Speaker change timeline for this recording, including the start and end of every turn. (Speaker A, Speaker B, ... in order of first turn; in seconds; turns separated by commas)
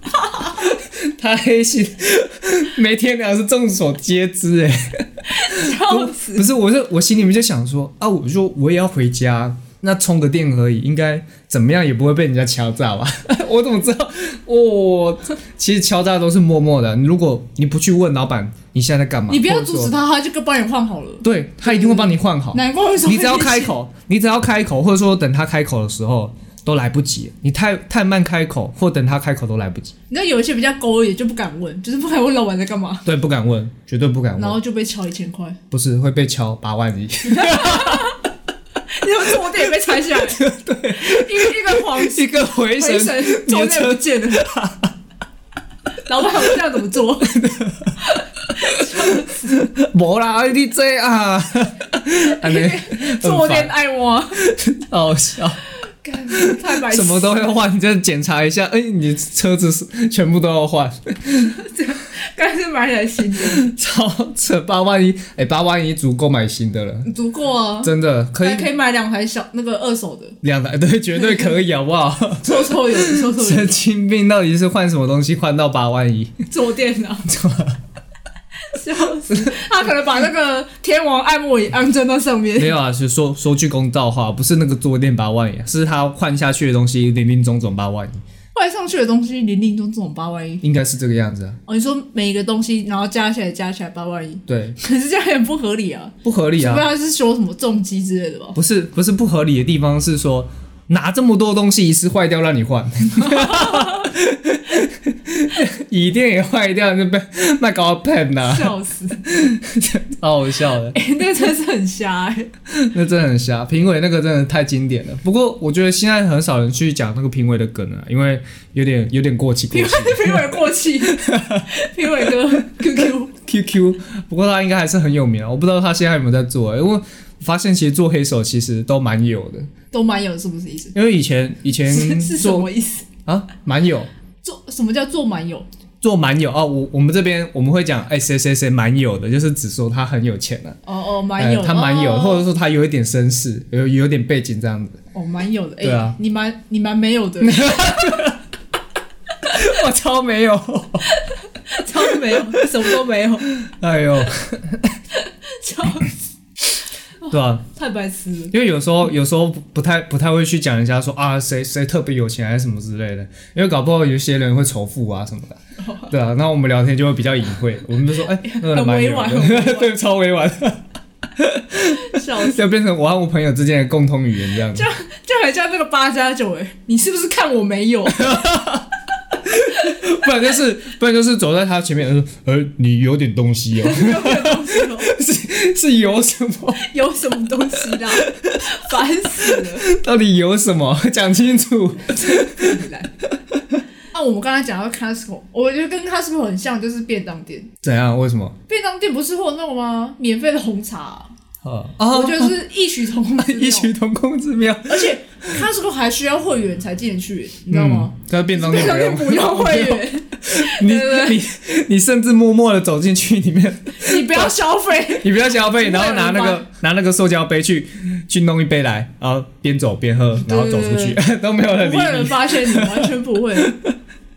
Speaker A: 0.6-19.9, Speaker B: 5.3-6.5, Speaker B: 19.3-23.7, Speaker A: 21.2-29.9, Speaker B: 30.1-33.1, Speaker A: 33.0-34.6, Speaker B: 34.4-35.6, Speaker A: 35.7-38.1, Speaker B: 37.3-38.2, Speaker B: 38.9-40.4, Speaker A: 40.2-44.9, Speaker B: 41.0-44.5, Speaker B: 46.1-47.4, Speaker A: 47.2-48.0, Speaker B: 48.0-49.6, Speaker A: 48.6-53.7, Speaker B: 52.3-54.4, Speaker A: 54.4-55.6, Speaker B: 55.9-57.5, Speaker A: 56.3-61.5, Speaker B: 61.4-63.6, Speaker A: 63.4-67.1, Speaker B: 67.1-70.4, Speaker A: 67.8-68.7, Speaker A: 70.4-76.4, Speaker B: 72.4-73.8, Speaker B: 76.5-77.3, Speaker A: 77.3-77.8, Speaker B: 78.7-82.7, Speaker A: 79.3-79.6, Speaker A: 82.6-88.2, Speaker B: 88.5-90.6, Speaker A: 90.6-91.6, Speaker B: 91.7-98.6, Speaker A: 94.5-94.8, Speaker A: 96.2-96.9, Speaker A: 98.5-111.0, Speaker B: 103.2-104.1, Speaker B: 108.4-109.2, Speaker B: 110.9-112.5, Speaker A: 112.7-121.7, Speaker B: 119.7-123.3, Speaker A: 122.8-129.7, Speaker B: 129.9-130.9, Speaker A: 130.9-132.7, Speaker B: 131.8-133.1, Speaker A: 133.3-134.1, Speaker B: 134.4-135.7, Speaker A: 136.0-140.8, Speaker B: 140.8-142.5, Speaker A: 141.4-145.0, Speaker B: 145.1-148.1, Speaker A: 145.8-146.2, Speaker A: 147.4-148.4, Speaker A: 149.4-151.2, Speaker B: 151.2-153.5, Speaker A: 152.0-152.7, Speaker A: 153.5-155.0, Speaker B: 155.1-156.2, Speaker B: 157.2-158.5, Speaker A: 157.3-157.6, Speaker A: 158.5-170.8, Speaker B: 165.8-166.1, Speaker B: 168.3-169.9, Speaker A: 171.4-174.9, Speaker B: 172.1-172.6, Speaker B: 174.7-178.5, Speaker A: 178.1-178.9, Speaker A: 179.4-186.9, Speaker B: 183.8-185.1, Speaker B: 186.8-189.9, Speaker A: 188.1-188.7, Speaker A: 189.4-192.8, Speaker B: 192.1-193.1, Speaker B: 194.1-197.7, Speaker A: 197.8-198.6, Speaker B: 198.7-201.3, Speaker A: 201.6-202.6, Speaker B: 202.1-203.9, Speaker A: 203.4-205.6, Speaker B: 204.9-211.4, Speaker A: 207.7-214.5, Speaker B: 214.0-216.6, Speaker A: 215.2-223.9, Speaker B: 220.4-221.2, Speaker B: 221.7-223.7